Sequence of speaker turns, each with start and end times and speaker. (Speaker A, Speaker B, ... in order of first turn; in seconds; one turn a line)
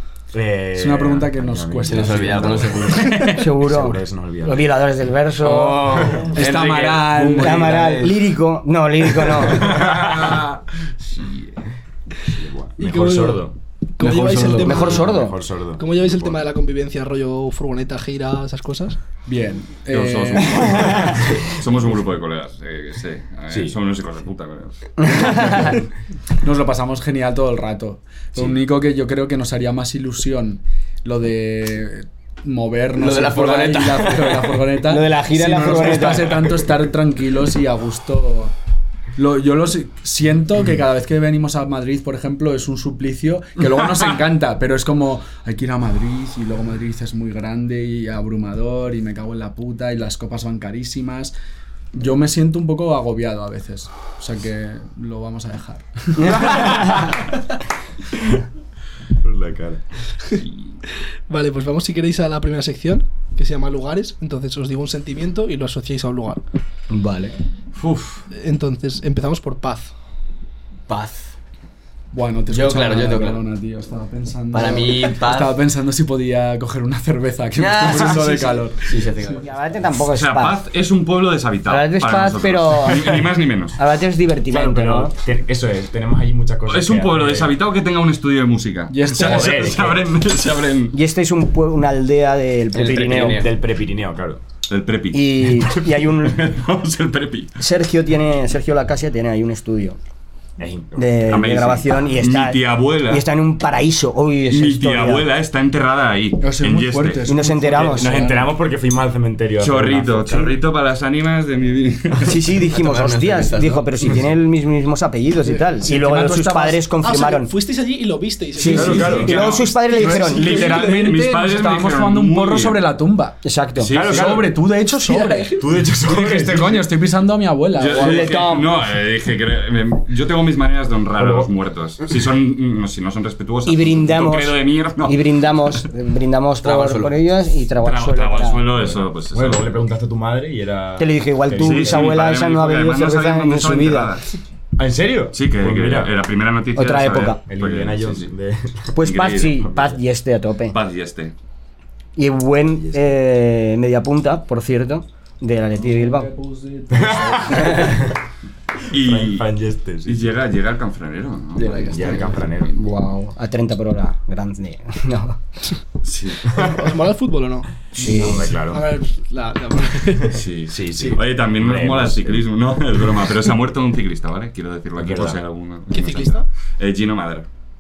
Speaker A: 0.3-4.8
Speaker B: 0.8-2.8
Speaker C: 1.9-3.2
Speaker D: 3.0-3.4
Speaker E: 3.2-6.2
Speaker C: 5.4-8.3
Speaker B: 6.3-8.0
Speaker E: 7.4-10.0
Speaker A: 9.6-10.3
Speaker A: 12.3-13.6
Speaker F: 12.8-19.0
Speaker C: 14.0-15.0
Speaker E: 14.6-15.4
Speaker A: 14.8-16.4
Speaker B: 19.3-21.1
Speaker D: 19.9-25.7
Speaker A: 23.5-23.8
Speaker E: 25.0-25.8
Speaker B: 26.4-38.5
Speaker C: 33.0-34.7
Speaker E: 34.9-36.6
Speaker B: 39.2-51.3
Speaker B: 51.9-57.0
Speaker E: 56.2-57.2
Speaker A: 59.2-59.8
Speaker D: 60.4-60.8
Speaker F: 61.3-66.4
Speaker E: 66.9-67.3
Speaker D: 67.7-68.3
Speaker F: 68.3-69.9
Speaker C: 70.9-71.4
Speaker B: 72.1-79.0
Speaker C: 72.5-73.4
Speaker C: 74.5-75.5
Speaker C: 77.6-79.5
Speaker E: 79.4-80.6
Speaker D: 80.0-83.8
Speaker E: 81.7-83.2
Speaker E: 83.8-85.1
Speaker A: 84.5-87.6
Speaker D: 86.7-91.0
Speaker B: 88.9-89.8
Speaker A: 89.2-90.1
Speaker E: 90.9-93.5
Speaker C: 92.7-93.5
Speaker A: 93.2-94.4
Speaker D: 94.7-97.6
Speaker E: 95.1-96.6
Speaker E: 97.6-100.0
Speaker A: 100.6-101.6
Speaker E: 101.0-105.3
Speaker D: 101.3-103.2
Speaker D: 104.5-107.3
Speaker B: 106.4-108.5
Speaker E: 107.3-108.3
Speaker A: 107.7-110.6
Speaker D: 109.6-112.6
Speaker E: 112.2-117.5
Speaker C: 112.7-113.9
Speaker B: 115.8-116.8
Speaker F: 117.0-119.5
Speaker E: 118.6-120.7
Speaker B: 118.6-123.4
Speaker A: 118.7-119.5
Speaker D: 119.0-122.8
Speaker F: 120.1-121.1
Speaker E: 123.4-123.9
Speaker D: 123.8-124.4
Speaker A: 123.9-124.5
Speaker B: 124.0-128.3
Speaker F: 124.9-125.7
Speaker A: 125.6-126.9
Speaker D: 127.8-135.8
Speaker E: 127.9-128.7
Speaker A: 131.2-131.5
Speaker E: 133.7-138.6
Speaker C: 136.6-137.2
Speaker D: 137.8-139.7
Speaker A: 138.8-142.2
Speaker E: 141.0-144.2
Speaker D: 141.6-144.3
Speaker A: 144.8-146.1
Speaker D: 145.3-148.3
Speaker E: 146.8-147.4
Speaker A: 147.5-149.0
Speaker E: 148.9-150.8
Speaker D: 149.0-150.0
Speaker D: 150.7-151.3
Speaker E: 152.2-156.3
Speaker A: 152.8-153.2
Speaker B: 155.8-158.0
Speaker A: 156.9-158.0
Speaker D: 158.9-159.5
Speaker A: 158.9-160.3
Speaker D: 160.0-162.9
Speaker C: 161.6-162.5
Speaker A: 161.9-162.7
Speaker E: 162.8-165.4
Speaker D: 166.0-166.6
Speaker F: 166.4-167.9
Speaker B: 168.0-168.5
Speaker E: 168.0-168.5
Speaker A: 168.0-168.9
Speaker F: 168.6-170.4
Speaker D: 170.3-177.5
Speaker A: 170.7-172.5
Speaker A: 175.0-175.4
Speaker F: 175.9-176.5